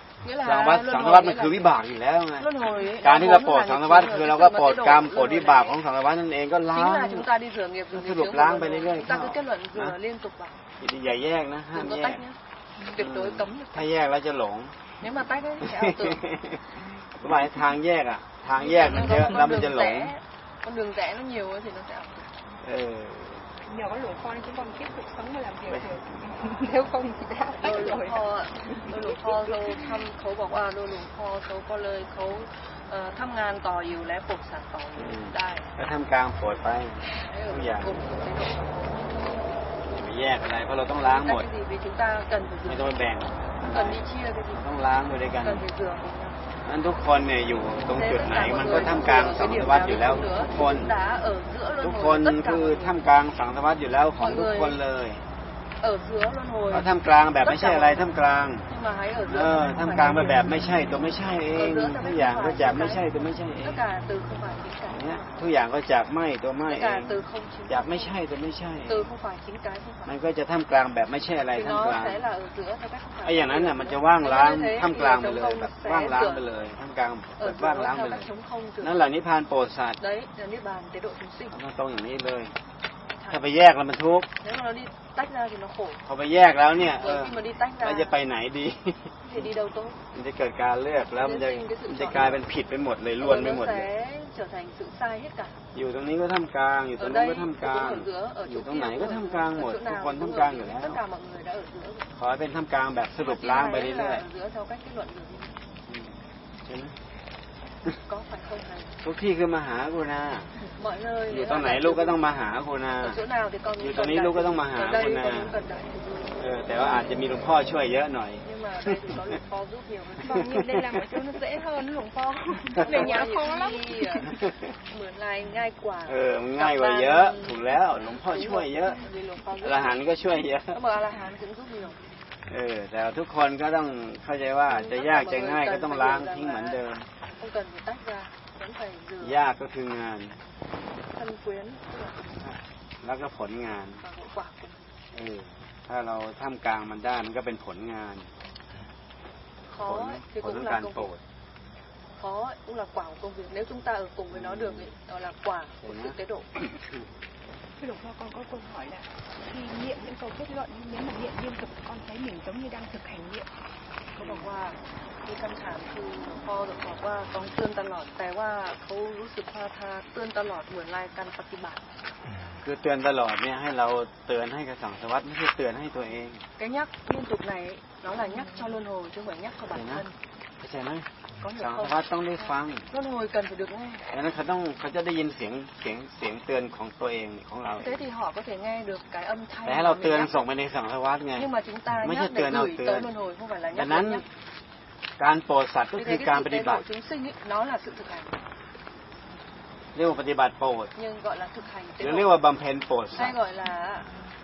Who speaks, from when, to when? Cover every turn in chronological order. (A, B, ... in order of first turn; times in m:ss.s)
0:00.2-0:01.7 A
0:00.4-0:02.5 B
0:02.4-0:05.8 A
0:03.0-0:07.3 B
0:06.7-0:10.6 A
0:07.9-0:10.0 B
0:10.8-0:12.2 B
0:11.7-0:13.9 A
0:12.9-0:14.8 B
0:15.0-0:16.3 A
0:15.6-0:20.1 B
0:18.6-0:22.3 A
0:22.6-0:23.5 B
0:23.7-0:29.9 C
0:25.7-0:26.0 B
0:27.6-0:35.7 A
0:35.0-0:38.1 B
0:37.3-0:39.6 A
0:39.9-0:41.5 B
0:40.9-0:46.4 A
0:42.7-0:45.6 B
0:46.6-0:50.9 B
0:47.9-0:53.0 A
0:51.8-0:55.2 B
0:54.2-0:54.8 A
0:55.8-0:58.1 A
0:56.7-0:58.7 B
0:58.7-1:00.7 A
0:59.3-1:03.8 B
1:01.5-1:03.1 A
1:03.6-1:05.3 A
1:04.9-1:09.1 B
1:06.7-1:08.2 A
1:08.9-1:10.1 A
1:10.1-1:12.2 B
1:11.5-1:16.5 A
1:13.2-1:18.3 B
1:17.4-1:19.0 A
1:18.8-1:20.0 B
1:20.0-1:21.6 A
1:21.5-1:22.5 B
1:23.2-1:23.4 A
1:23.3-1:24.3 B
1:24.4-1:26.0 A
1:26.0-1:29.4 B
1:27.0-1:28.2 A
1:29.2-1:30.0 A
1:30.1-1:33.9 B
1:31.2-1:32.4 A
1:33.2-1:35.6 A
1:35.7-1:41.0 B
1:37.0-1:42.1 A
1:42.2-1:44.2 B
1:43.2-1:45.6 A
1:45.9-1:47.0 B
1:48.0-1:49.0 A
1:49.0-1:50.5 B
1:50.8-1:52.3 A
1:51.3-1:53.2 B
1:53.0-1:57.2 A
1:53.8-1:55.6 B
1:56.4-1:59.0 B
1:58.4-2:00.4 A
2:00.2-2:04.3 C
2:00.4-2:00.8 B
2:02.8-2:03.1 B
2:02.8-2:10.1 A
2:06.1-2:09.0 B
2:09.6-2:10.8 B
2:10.7-2:12.0 A
2:12.5-2:17.1 B
2:14.7-2:19.4 A
2:19.2-2:20.4 B
2:21.1-2:22.2 A
2:22.4-2:24.0 B
2:24.0-2:24.9 A
2:25.1-2:28.3 B
2:29.7-2:31.1 A
2:29.8-2:31.2 B
2:32.2-2:36.5 A
2:34.3-2:34.9 B
2:35.8-2:37.0 B
2:37.8-2:43.5 C
2:44.2-2:51.8 A
2:44.2-2:44.5 B
2:52.6-2:56.4 B
2:56.6-3:00.1 A
2:59.7-3:00.1 B
3:00.6-3:02.9 B
3:01.4-3:02.0 A
3:02.9-3:04.1 A
3:04.1-3:08.0 B
3:07.8-3:10.3 A
3:09.7-3:13.1 B
3:11.4-3:14.3 A
3:13.7-3:14.2 B
3:15.2-3:16.8 B
3:16.0-3:18.4 A
3:20.0-3:20.9 B
3:21.0-3:22.3 A
3:22.0-3:23.4 B
3:23.2-3:24.2 A